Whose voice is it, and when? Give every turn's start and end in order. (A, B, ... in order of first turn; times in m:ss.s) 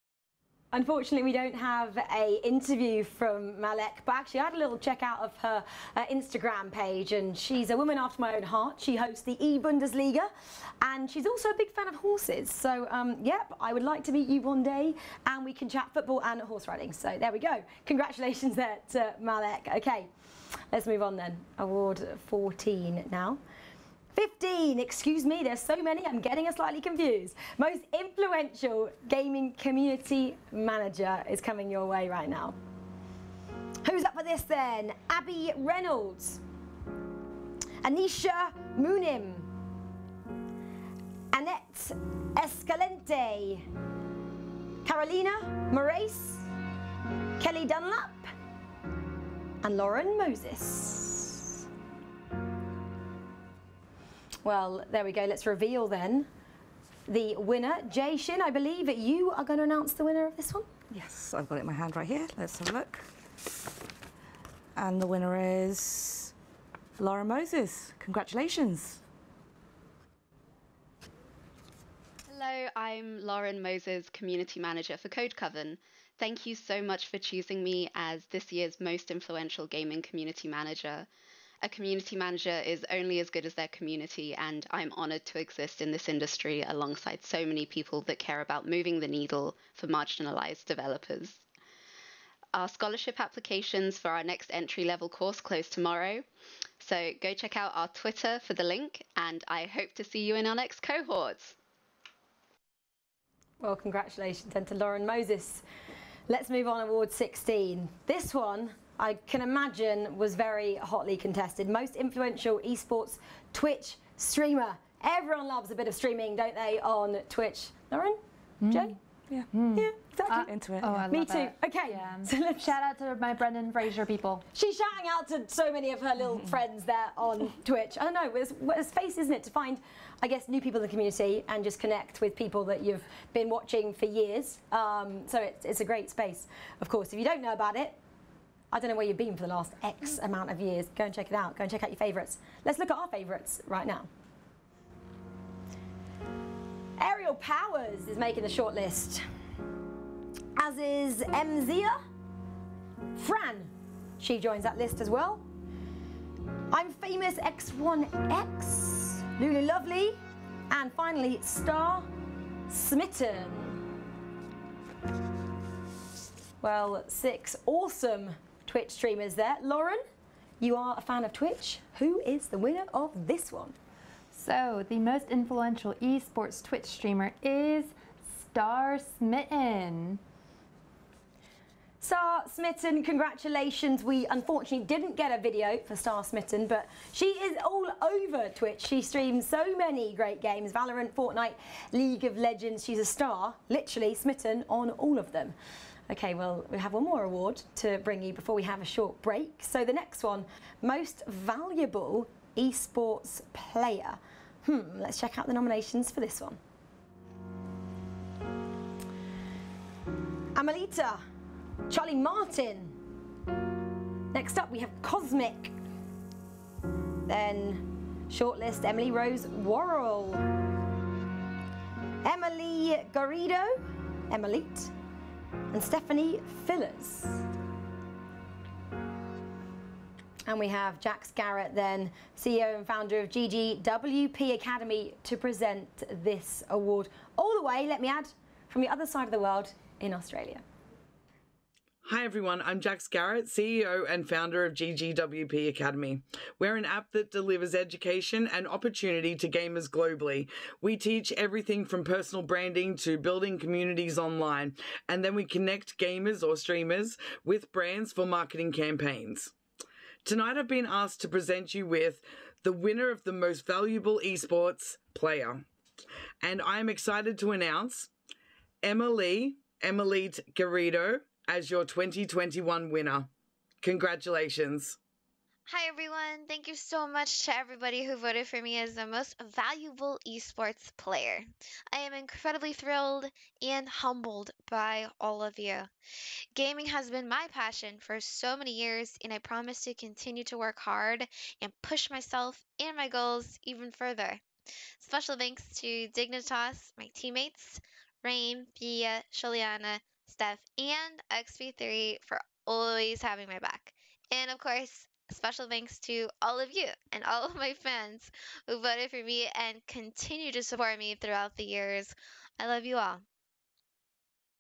0:00.7-0:20.1 A
0:20.7-0:23.4 A
0:24.1-0:32.6 A
0:33.8-0:36.4 A
0:37.8-0:39.5 A
0:41.3-0:43.6 A
0:44.8-0:46.5 A
0:47.4-0:48.3 A
0:49.6-0:51.6 A
0:54.4-0:56.3 A
0:57.1-1:00.7 A
1:00.9-1:03.1 B
1:04.8-1:06.3 B
1:07.0-1:09.0 B
1:12.3-1:21.1 C
1:21.6-1:31.4 C
1:32.5-1:36.2 C
1:36.8-1:41.6 C
1:43.6-1:45.6 A
1:46.3-1:59.0 A
1:58.6-1:58.9 D
1:59.5-2:04.5 D
1:59.8-2:00.5 A
2:00.5-2:01.0 B
2:01.1-2:02.7 A
2:04.5-2:18.0 A
2:18.7-2:24.1 A
2:27.0-2:29.2 A
2:30.6-2:32.0 A
2:33.2-2:35.5 A
2:36.7-2:40.2 A
2:40.7-2:42.1 A
2:42.7-2:43.8 A
2:46.6-2:50.0 A
2:50.6-2:53.8 A
2:54.3-3:00.2 D
3:02.0-3:15.6 A
3:16.1-3:26.6 A
3:30.6-3:31.2 A
3:31.9-3:33.0 A
3:34.3-3:35.7 A
3:37.3-3:40.4 A
3:42.2-3:44.9 A
3:45.7-3:47.4 A
3:50.5-4:00.6 A
4:02.0-4:19.5 E
4:20.2-4:25.6 E
4:26.4-4:28.1 E
4:28.8-4:33.3 E
4:33.8-4:35.0 E
4:35.7-4:45.9 F
4:46.6-4:54.4 F
4:55.0-5:13.2 F